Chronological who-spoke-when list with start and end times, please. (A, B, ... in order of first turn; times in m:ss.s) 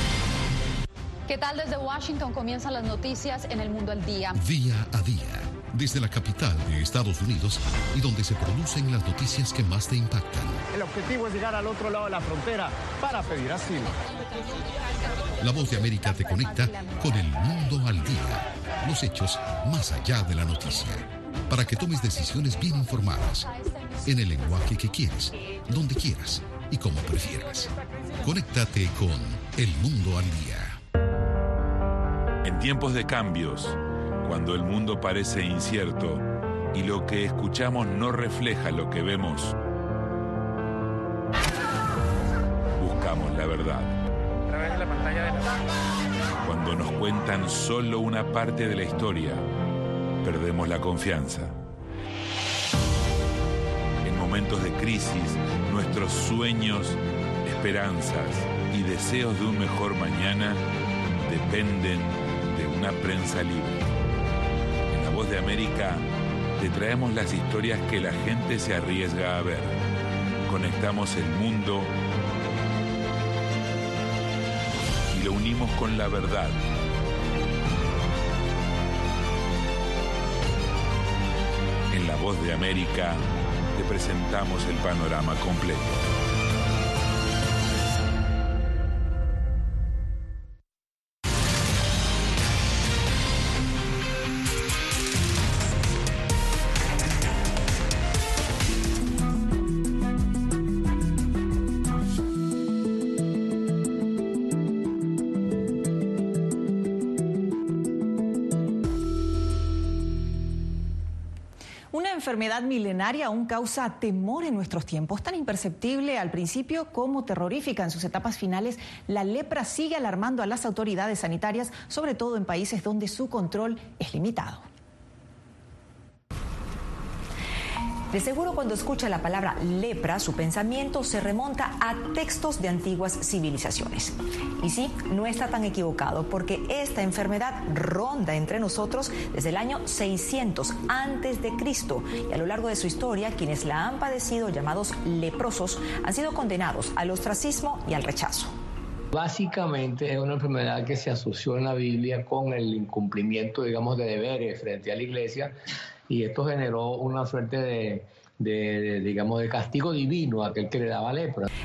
0:01.3-0:04.3 A
0:04.3-0:10.6 B
0:10.7-0:14.0 C
0:15.4-0:23.5 B
0:24.0-0:30.8 B
0:32.4-0:39.6 D
0:42.8-0:44.0 D
0:46.4-0:49.5 D
0:50.2-0:51.6 D
0:54.0-1:00.6 D
1:01.2-1:03.9 D
1:04.9-1:06.1 D
1:06.6-1:09.8 D
1:10.5-1:11.9 D
1:15.1-1:16.6 D
1:21.9-1:26.0 D
1:51.9-2:04.6 E
2:08.1-2:28.5 F
2:29.1-2:35.6 G
2:36.1-2:41.5 G